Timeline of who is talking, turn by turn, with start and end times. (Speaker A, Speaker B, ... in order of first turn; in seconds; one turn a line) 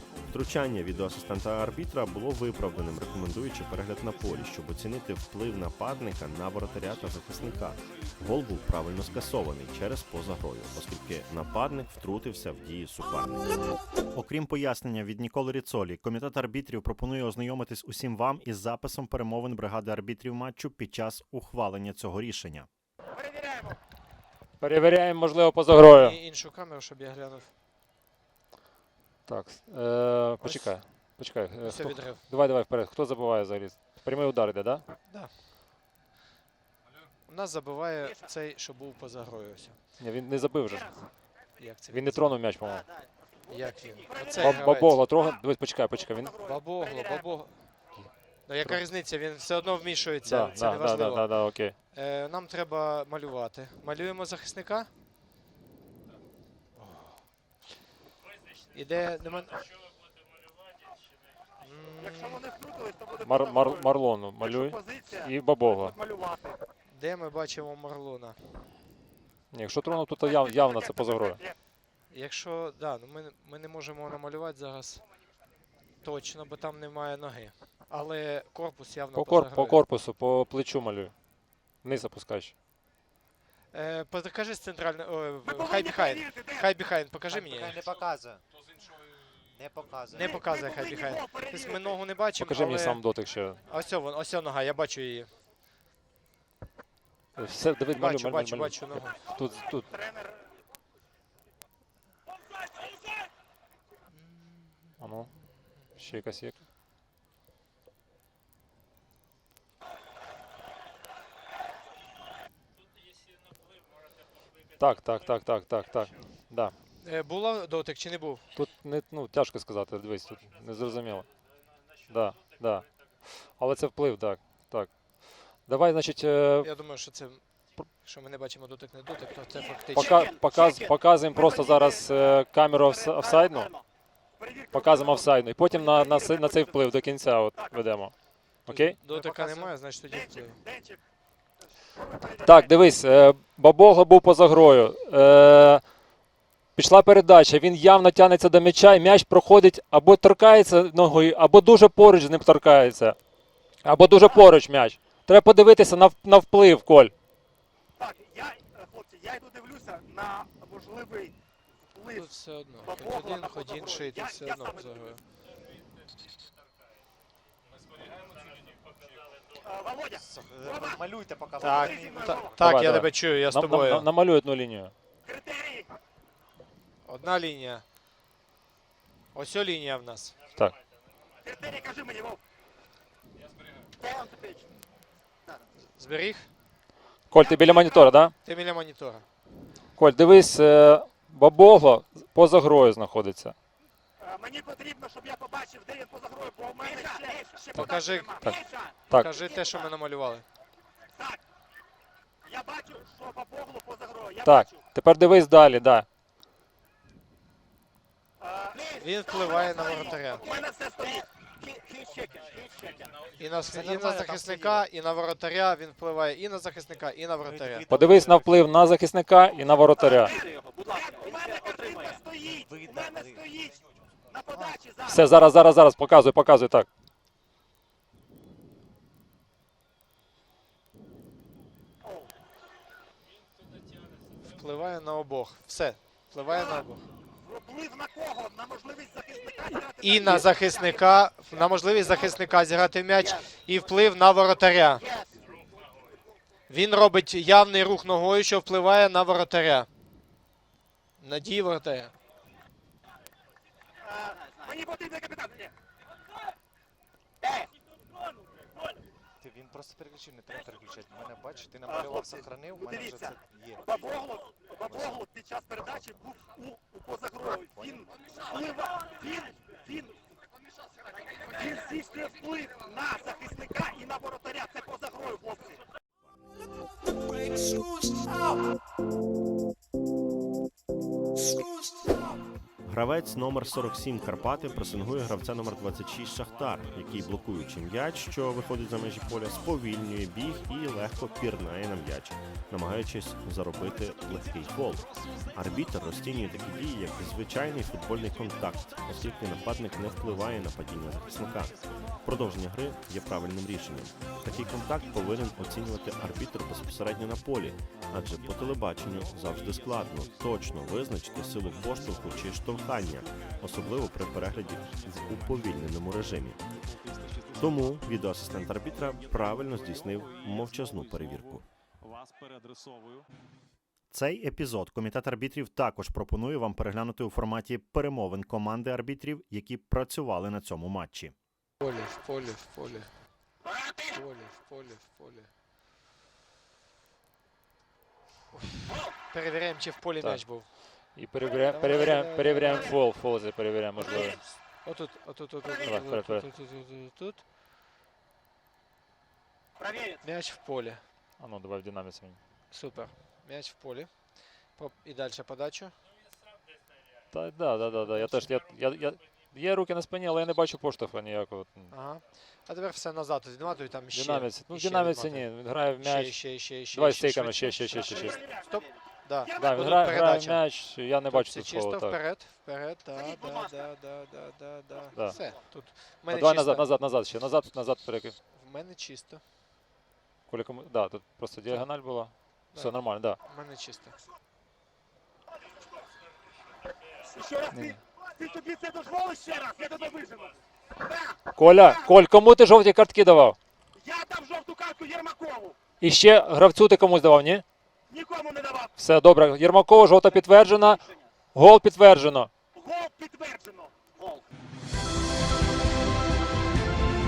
Speaker A: 0.3-13.5
Speaker A: 14.2-22.7
Speaker B: 24.6-26.2
Speaker C: 25.8-27.5
Speaker B: 29.3-34.9
Speaker C: 30.4-30.8
Speaker C: 31.6-32.2
Speaker C: 37.3-39.8
Speaker B: 40.0-41.2
Speaker C: 41.6-42.3
Speaker B: 41.9-42.9
Speaker C: 43.5-45.0
Speaker B: 44.4-46.4
Speaker C: 46.4-47.6
Speaker C: 48.5-51.3
Speaker B: 50.2-51.8
Speaker C: 51.9-54.9
Speaker C: 58.7-59.7
Speaker C: 61.6-62.4
Speaker D: 62.1-63.4
Speaker B: 63.2-66.0
Speaker D: 64.6-65.1
Speaker D: 65.9-66.6
Speaker C: 66.9-68.7
Speaker B: 69.5-71.4
Speaker C: 72.1-75.0
Speaker C: 76.0-79.8
Speaker B: 79.2-81.1
Speaker B: 81.8-82.5
Speaker C: 83.7-87.8
Speaker D: 85.5-86.5
Speaker E: 87.3-88.4
Speaker E: 89.5-90.4
Speaker C: 90.1-93.0
Speaker D: 90.4-91.2
Speaker B: 92.4-93.6
Speaker C: 93.7-95.3
Speaker B: 97.4-99.9
Speaker C: 98.0-99.2
Speaker B: 105.0-105.4
Speaker B: 105.9-106.6
Speaker B: 114.8-116.8
Speaker C: 117.0-118.5
Speaker B: 118.5-121.3
Speaker B: 122.1-126.7
Speaker C: 126.6-130.3
Speaker B: 129.9-133.7
Speaker D: 131.4-131.6
Speaker D: 134.4-135.0
Speaker B: 134.7-138.1
Speaker B: 138.7-139.0
Speaker C: 138.7-140.6
Speaker D: 140.7-141.0
Speaker B: 142.4-145.8
Speaker B: 146.8-153.2
Speaker B: 153.8-157.1
Speaker D: 158.0-161.3
Speaker C: 162.1-165.2
Speaker D: 169.7-170.2
Speaker E: 170.1-172.6
Speaker C: 171.6-174.1
Speaker D: 171.7-172.5
Speaker B: 172.6-174.9
Speaker D: 175.3-175.9
Speaker C: 177.1-177.8
Speaker C: 179.3-180.4
Speaker D: 181.5-182.4
Speaker D: 184.0-184.6
Speaker C: 185.8-186.5
Speaker B: 187.3-188.3
Speaker C: 188.4-189.3
Speaker B: 190.0-193.6
Speaker D: 194.2-198.8
Speaker C: 197.8-198.5
Speaker C: 199.1-200.4
Speaker D: 202.5-204.6
Speaker B: 204.4-206.1
Speaker D: 208.5-208.9
Speaker C: 209.0-210.5
Speaker D: 209.7-211.3
Speaker C: 213.4-217.9
Speaker E: 213.7-214.9
Speaker E: 217.4-218.6
Speaker B: 217.9-220.4
Speaker D: 220.9-223.8
Speaker E: 222.5-223.5
Speaker D: 224.3-225.1
Speaker B: 225.1-226.9
Speaker C: 234.4-237.1
Speaker D: 237.5-240.2
Speaker C: 240.0-245.1
Speaker C: 246.7-249.9
Speaker C: 251.2-252.1
Speaker D: 254.6-255.7
Speaker E: 259.4-263.9
Speaker D: 262.0-262.3
Speaker D: 262.9-263.3
Speaker D: 263.9-270.1
Speaker E: 264.8-265.2
Speaker E: 267.7-268.1
Speaker D: 271.5-275.8
Speaker A: 282.9-316.6
Speaker A: 317.6-321.7
Speaker A: 324.1-331.3
Speaker C: 331.8-333.1
Speaker C: 334.1-335.5
Speaker C: 338.6-340.8
Speaker B: 340.2-344.5
Speaker C: 341.7-343.0
Speaker C: 344.8-347.4
Speaker B: 345.8-346.5
Speaker C: 350.2-351.0
Speaker B: 351.4-352.4
Speaker C: 352.7-354.1
Speaker C: 354.8-355.9
Speaker B: 357.3-361.9
Speaker C: 361.9-370.6
Speaker B: 364.1-368.4
Speaker B: 369.5-372.2
Speaker C: 371.3-376.9
Speaker B: 375.1-378.4
Speaker C: 378.5-379.4
Speaker B: 380.5-383.4
Speaker C: 382.8-384.2
Speaker D: 387.3-390.5
Speaker B: 387.7-388.0
Speaker B: 391.5-393.6
Speaker D: 394.0-395.8
Speaker B: 396.0-397.6
Speaker D: 398.1-398.9
Speaker B: 399.0-401.0
Speaker B: 401.5-402.5
Speaker D: 402.8-404.1